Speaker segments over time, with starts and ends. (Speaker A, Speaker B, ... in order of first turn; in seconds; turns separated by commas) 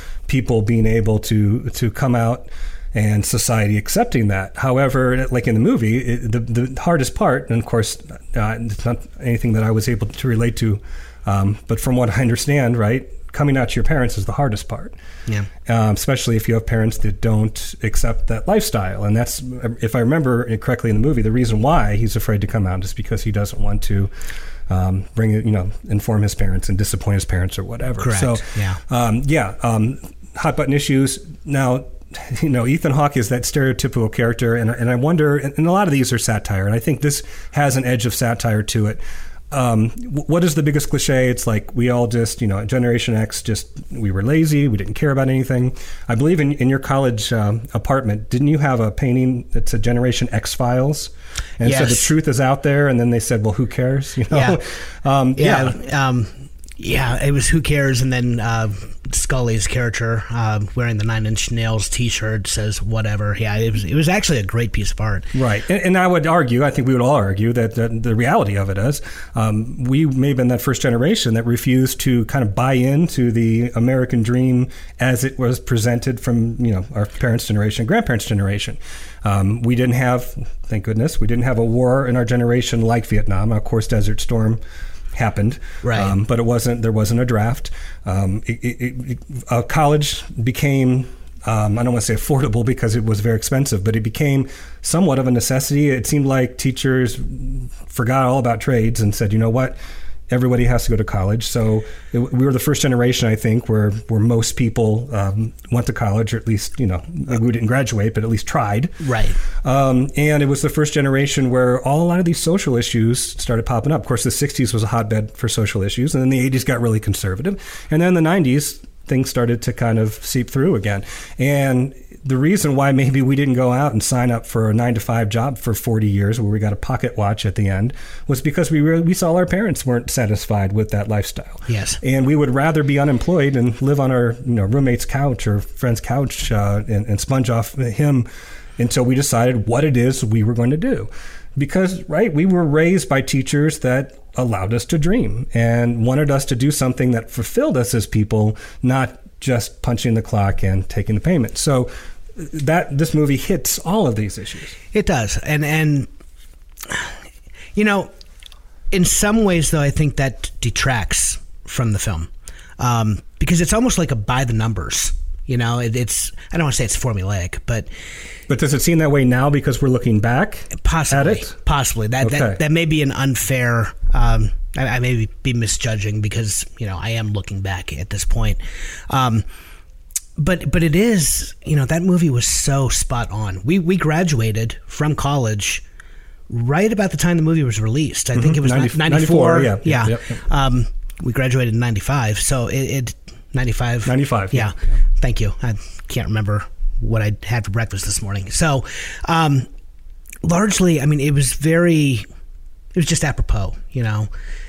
Speaker A: 0.3-14.9, Speaker A: 15.7-24.1, Speaker A: 24.7-55.8, Speaker B: 28.0-28.8, Speaker B: 51.6-52.1, Speaker B: 54.3-54.6, Speaker B: 55.4-65.3, Speaker A: 65.3-84.6, Speaker A: 85.1-99.8, Speaker B: 85.8-86.2, Speaker A: 100.3-109.0, Speaker B: 109.0-109.4, Speaker A: 109.6-154.8, Speaker B: 131.7-132.0, Speaker B: 154.9-156.1, Speaker B: 157.8-158.1, Speaker B: 158.9-167.9, Speaker A: 168.5-171.6, Speaker B: 170.8-179.4, Speaker A: 172.2-172.6, Speaker B: 180.4-185.8, Speaker B: 186.5-199.7, Speaker A: 188.3-190.4, Speaker A: 194.1-195.0, Speaker B: 200.4-202.2, Speaker B: 202.9-204.3